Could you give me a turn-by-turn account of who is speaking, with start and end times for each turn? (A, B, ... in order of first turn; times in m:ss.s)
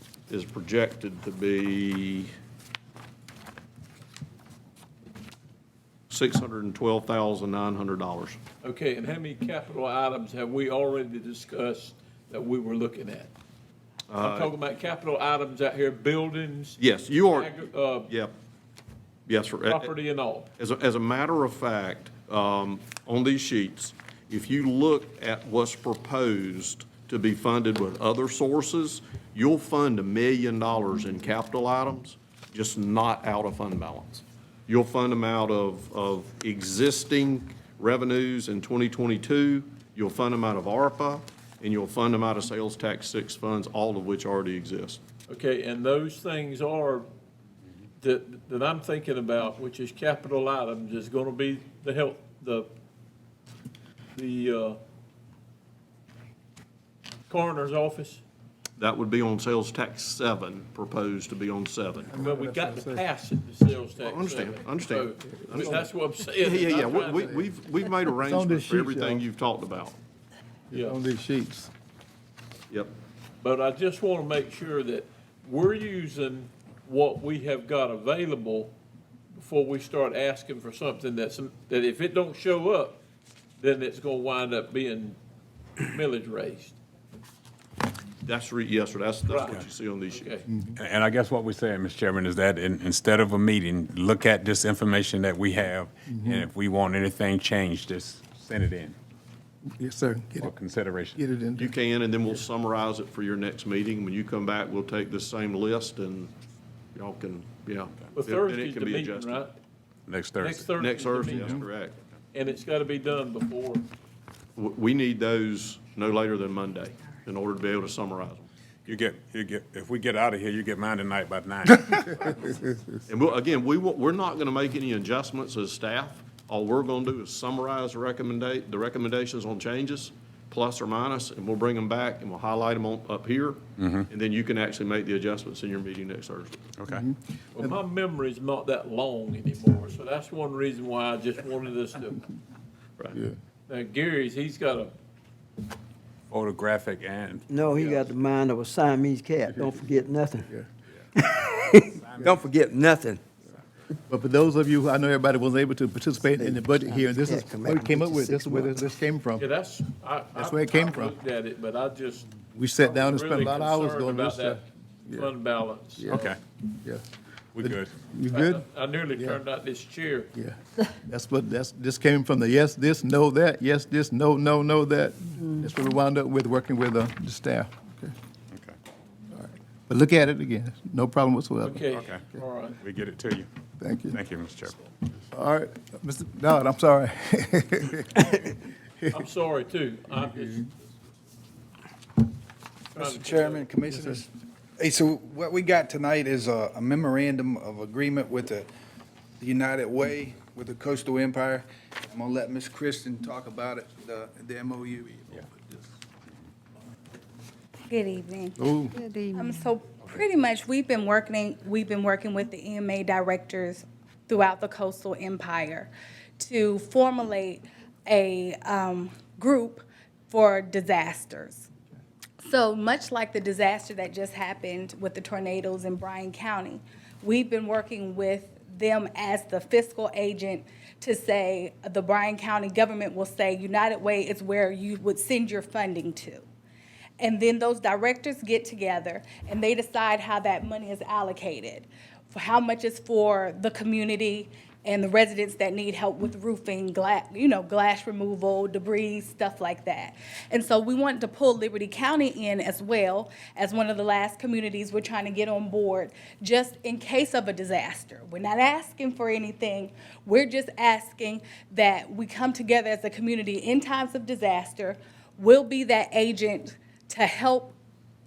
0:00.3-0:02.3 A
0:06.1-0:08.4 A
0:08.6-0:13.3 B
0:14.1-0:14.5 A
0:14.2-0:18.1 B
0:16.8-0:17.5 A
0:18.1-0:18.3 A
0:19.2-0:19.9 A
0:19.7-0:20.5 B
0:20.6-0:45.0 A
0:45.3-0:47.0 B
0:48.0-0:52.7 B
0:54.1-0:54.8 B
0:57.3-0:58.2 B
0:58.8-1:02.2 A
1:02.1-1:03.0 C
1:02.2-1:07.3 B
1:04.0-1:05.8 A
1:06.4-1:10.0 A
1:08.2-1:09.2 C
1:10.7-1:11.7 C
1:10.7-1:11.0 B
1:13.4-1:18.7 B
1:19.3-1:23.0 B
1:23.6-1:25.2 B
1:25.8-1:26.8 B
1:28.2-1:30.3 A
1:29.3-1:29.6 B
1:30.1-1:30.5 B
1:30.5-1:30.8 C
1:30.8-1:39.0 D
1:36.1-1:36.5 C
1:39.7-1:40.5 C
1:40.4-1:41.2 D
1:41.1-1:41.7 C
1:41.6-1:46.3 A
1:46.9-1:49.4 A
1:48.1-1:49.5 B
1:50.1-1:50.7 D
1:50.4-1:51.7 B
1:50.8-1:51.9 A
1:52.3-1:53.8 B
1:54.6-1:58.5 A
1:58.8-2:02.3 D
2:03.1-2:16.6 A
2:13.8-2:14.0 D
2:16.8-2:17.0 D
2:17.5-2:22.2 B
2:23.7-2:24.9 B
2:26.3-2:28.0 D
2:27.5-2:30.5 E
2:31.1-2:33.3 E
2:32.0-2:32.4 D
2:34.1-2:39.5 C
2:36.4-2:38.8 E
2:39.4-2:46.3 B
2:40.3-2:41.1 C
2:42.5-2:45.3 C
2:46.1-2:46.4 D
2:47.5-2:47.9 D
2:47.6-2:48.6 C
2:48.3-2:50.3 B
2:50.3-2:58.1 C
2:59.3-3:01.8 C
3:01.6-3:02.8 B
3:02.8-3:03.5 D
3:03.8-3:04.2 C
3:04.1-3:04.8 D
3:05.3-3:08.6 C
3:09.1-3:10.7 B
3:12.9-3:14.1 B
3:13.0-3:18.7 F
3:19.4-3:25.8 F
3:27.9-3:28.7 G
3:28.6-3:29.0 C
3:29.3-3:41.7 G
3:42.4-3:56.4 G
3:57.2-4:27.7 G